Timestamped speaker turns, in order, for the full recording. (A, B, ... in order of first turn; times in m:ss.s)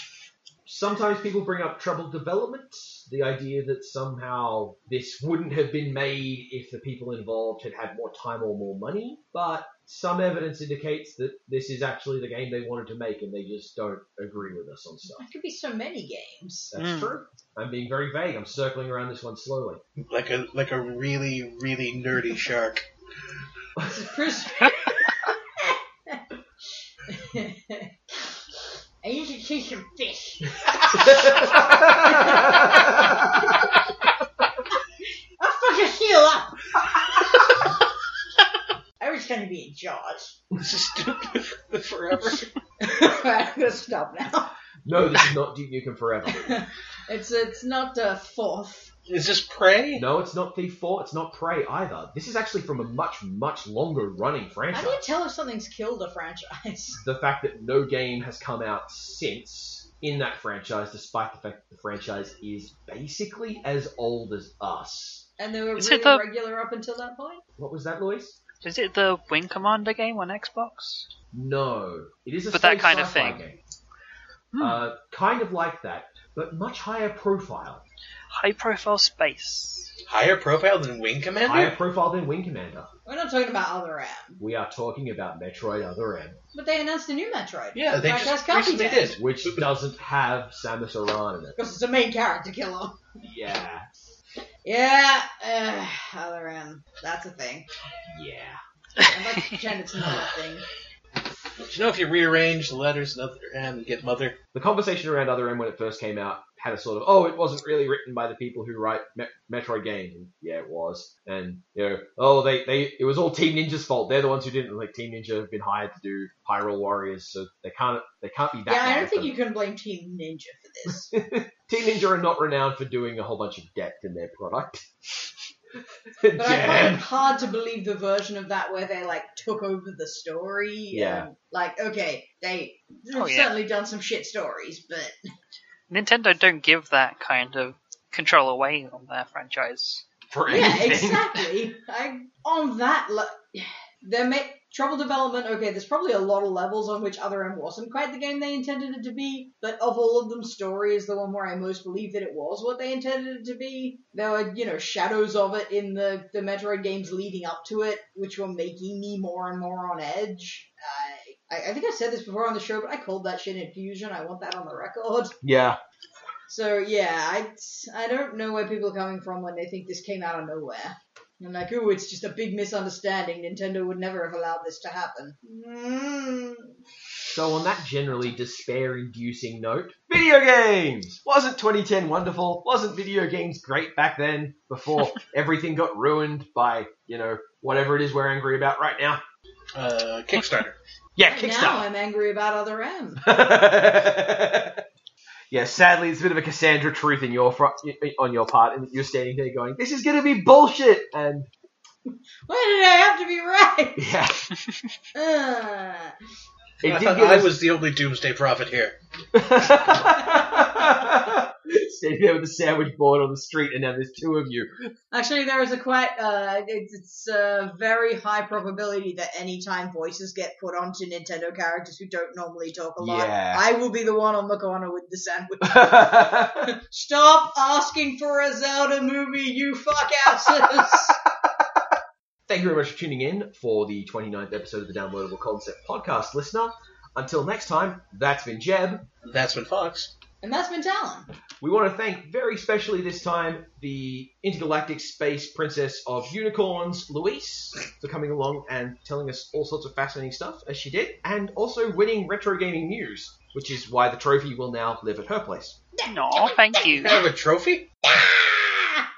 0:00.6-0:15.2 A
0:15.2-0:16.7 B
0:16.7-0:19.8 A
0:16.8-0:17.1 C
0:20.0-0:22.8 D
0:23.8-0:24.0 A
0:23.8-0:26.2 B
0:27.1-0:28.3 B
0:29.0-0:33.6 B
0:30.9-0:33.2 A
0:35.4-0:36.6 B
0:39.0-0:40.4 B
0:40.6-0:42.5 D
0:42.8-0:44.5 B
0:44.8-0:46.5 A
0:46.3-0:48.9 B
0:49.1-0:50.0 D
0:49.9-0:55.0 A
0:54.7-0:57.0 B
0:57.0-1:05.2 A
1:05.4-1:07.4 B
1:05.8-1:06.2 C
1:07.6-1:08.4 A
1:08.6-1:11.1 C
1:11.3-1:13.6 A
1:12.5-1:13.4 C
1:14.5-1:14.8 C
1:14.6-1:17.8 A
1:18.3-1:19.9 C
1:20.1-1:21.7 D
1:21.4-1:22.9 A
1:23.0-1:24.4 B
1:24.4-1:26.4 A
1:26.5-1:29.2 B
1:27.7-1:29.6 D
1:29.2-1:31.6 A
1:31.6-1:33.0 B
1:33.2-1:33.8 A
1:34.6-1:37.7 B
1:38.1-1:38.6 A
1:39.0-1:40.6 B
1:41.6-1:44.4 D
1:44.5-1:59.3 A
1:58.7-2:01.1 B
2:00.9-2:04.8 A
2:06.2-2:07.0 A
2:06.3-2:15.1 B
2:10.9-2:11.3 A
2:13.1-2:13.6 C
2:15.9-2:20.0 C
2:20.3-2:21.4 A
2:20.5-2:45.4 B
2:45.4-2:45.8 A
2:46.5-2:56.7 B
2:57.3-3:09.2 A
3:09.7-3:10.8 D
3:11.2-3:11.8 A
3:11.3-3:13.2 B
3:13.2-3:14.8 A
3:15.5-3:21.5 A
3:22.5-3:24.1 B
3:24.0-3:24.5 A
3:25.1-3:26.1 B
3:26.8-3:27.6 A
3:26.8-3:29.0 D
3:29.3-3:34.9 A
3:30.2-3:30.6 B
3:35.1-3:51.2 B
3:43.0-3:43.6 A
3:45.6-3:46.7 A
3:50.4-3:51.1 A
3:52.5-3:59.0 A
3:59.2-4:00.1 D
4:00.4-4:01.3 B
4:01.6-4:15.8 A
4:16.0-4:16.4 B
4:16.0-4:17.2 C
4:16.8-4:17.9 D
4:18.1-4:18.9 B